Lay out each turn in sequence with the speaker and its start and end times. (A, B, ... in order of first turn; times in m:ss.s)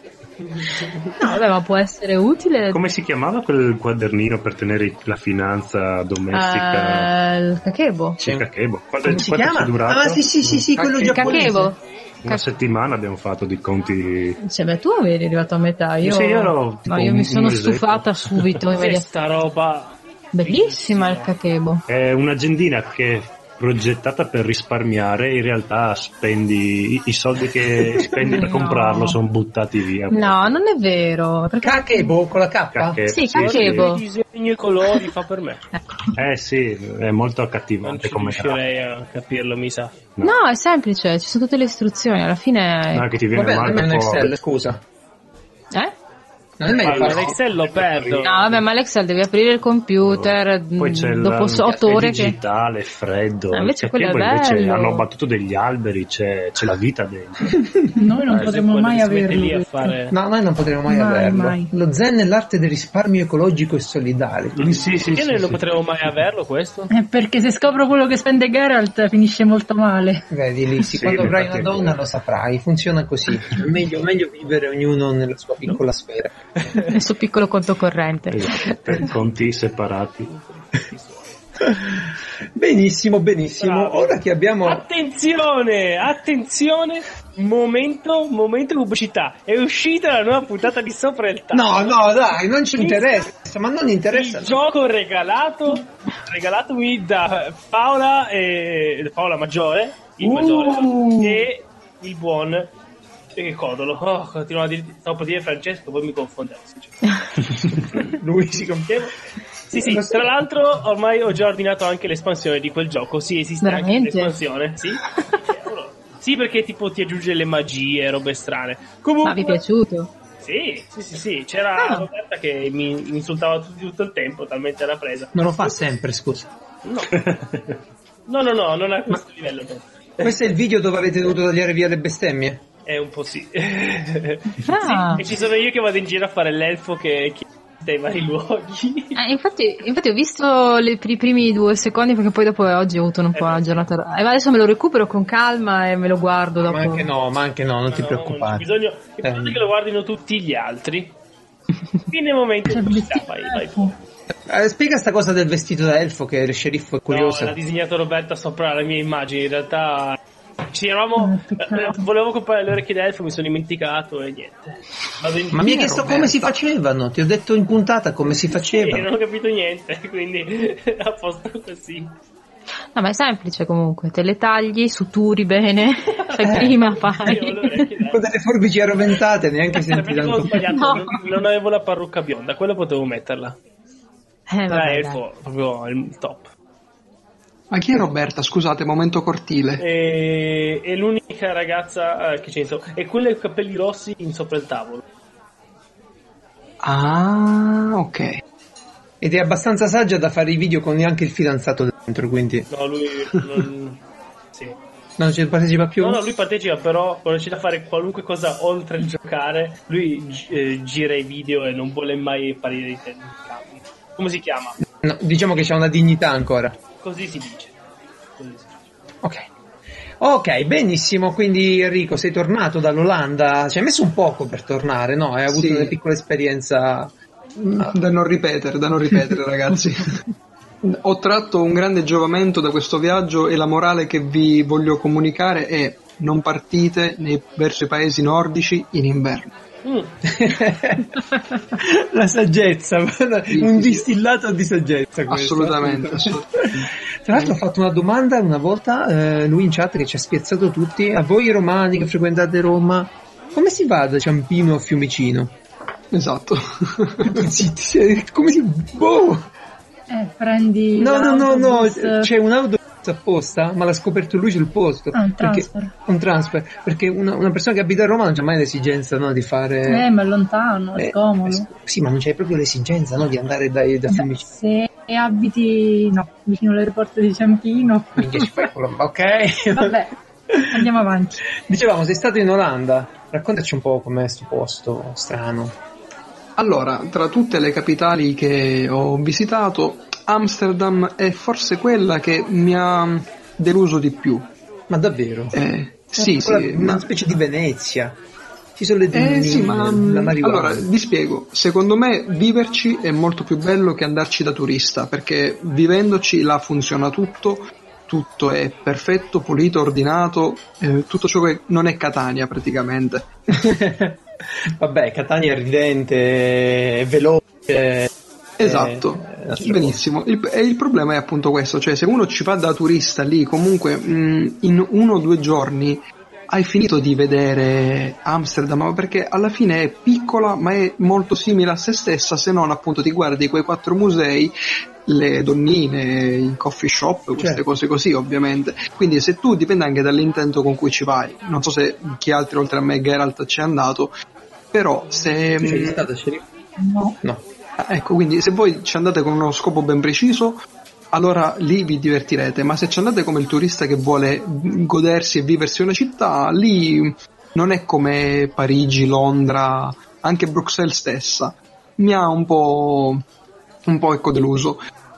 0:01.2-0:02.8 A
0:02.7-0:07.1 B
0:06.3-0:08.2 A
0:08.2-0:11.7 B
0:09.1-0:11.7 C
0:11.0-0:12.4 A
0:12.2-0:14.4 B
0:14.4-0:19.0 A
0:16.0-0:18.6 B
0:18.8-0:21.3 D
0:20.3-0:21.8 A
0:21.9-0:30.6 B
0:28.3-0:29.2 A
0:30.1-0:32.1 A
0:31.6-0:33.1 C
0:32.7-0:33.9 B
0:33.1-0:34.0 A
0:33.4-0:35.6 D
0:36.2-0:38.6 B
0:37.8-0:40.0 D
0:40.2-0:43.2 A
0:42.9-0:44.3 B
0:43.3-0:44.8 C
0:46.6-0:47.4 C
0:46.8-0:48.6 B
0:46.8-0:48.3 D
0:48.2-0:52.4 A
0:50.0-0:57.6 B
0:51.7-0:52.2 C
0:53.5-0:55.0 A
0:57.9-0:59.9 E
0:58.3-1:00.2 D
1:00.1-1:05.0 C
1:00.9-1:01.7 E
1:04.6-1:05.6 B
1:05.1-1:06.9 D
1:06.9-1:10.2 E
1:10.3-1:16.4 C
1:10.9-1:12.0 B
1:16.9-1:19.0 A
1:18.3-1:20.3 B
1:20.3-1:21.4 D
1:21.7-1:22.0 C
1:22.5-1:24.8 C
1:23.6-1:32.1 D
1:31.5-1:34.6 C
1:32.8-1:33.3 D
1:34.1-1:42.7 D
1:40.2-1:41.4 C
1:43.4-1:47.2 D
1:48.0-1:49.1 C
1:48.9-1:49.1 D
1:49.7-1:59.6 D
1:49.8-1:50.4 C
1:53.6-1:54.3 A
1:59.2-2:00.1 A
2:00.4-2:05.7 D
2:01.8-2:02.1 A
2:05.3-2:06.5 C
2:06.8-2:07.2 D
2:07.1-2:07.8 B
2:08.3-2:10.5 D
2:10.2-2:12.6 C
2:12.8-2:19.2 D
2:14.6-2:15.2 A
2:19.2-2:27.1 A
2:23.3-2:23.9 D
2:26.6-2:28.7 C
2:27.9-2:31.2 D
2:29.2-2:29.6 C
2:32.1-2:34.0 D
2:32.7-2:33.9 E
2:34.5-2:37.6 C
2:37.1-2:40.2 D
2:40.7-2:46.3 D
2:41.2-2:42.1 E
2:45.5-2:49.1 C
2:48.6-2:52.1 D
2:52.9-2:57.9 A
2:56.4-2:56.8 C
2:56.5-2:58.2 D
2:58.1-3:00.7 C
2:59.8-3:03.6 D
3:00.7-3:01.0 A
3:04.5-3:05.2 A
3:04.7-3:06.5 D
3:07.7-3:09.8 F
3:09.8-3:15.0 D
3:16.8-3:18.4 F
3:19.2-3:22.7 C
3:22.7-3:24.0 D
3:25.2-3:26.2 C
3:26.0-3:34.8 D
3:35.0-3:36.8 C
3:37.0-3:37.7 D
3:38.4-3:38.8 D
3:39.2-3:39.5 C
3:40.2-3:48.0 C
3:45.5-3:45.9 F
3:47.7-3:50.2 F
3:50.8-3:59.5 F
3:59.8-4:00.2 D
4:00.2-4:15.5 C
4:03.5-4:04.0 F
4:05.3-4:06.4 F
4:16.1-4:17.4 F
4:17.2-4:19.5 C
4:20.1-4:22.3 E
4:21.0-4:30.1 C
4:25.1-4:25.9 E
4:29.9-4:31.7 E
4:31.0-4:34.5 C
4:34.1-4:38.7 E
4:38.2-4:40.9 C
4:39.7-4:40.1 E
4:40.7-4:41.4 E
4:41.6-4:45.8 C
4:46.6-4:54.5 F
4:54.9-4:55.6 C
4:55.5-4:57.0 F
4:56.1-4:58.2 C
4:58.8-5:00.8 C
4:59.1-5:13.3 F
5:13.5-5:20.0 C
5:18.6-5:34.5 F
5:35.0-5:44.1 F
5:37.4-5:37.6 C
5:44.7-5:46.0 F
5:45.1-5:45.8 D
5:45.6-5:46.4 C
5:47.8-5:50.6 F
5:51.1-6:03.2 F
6:03.9-6:04.8 F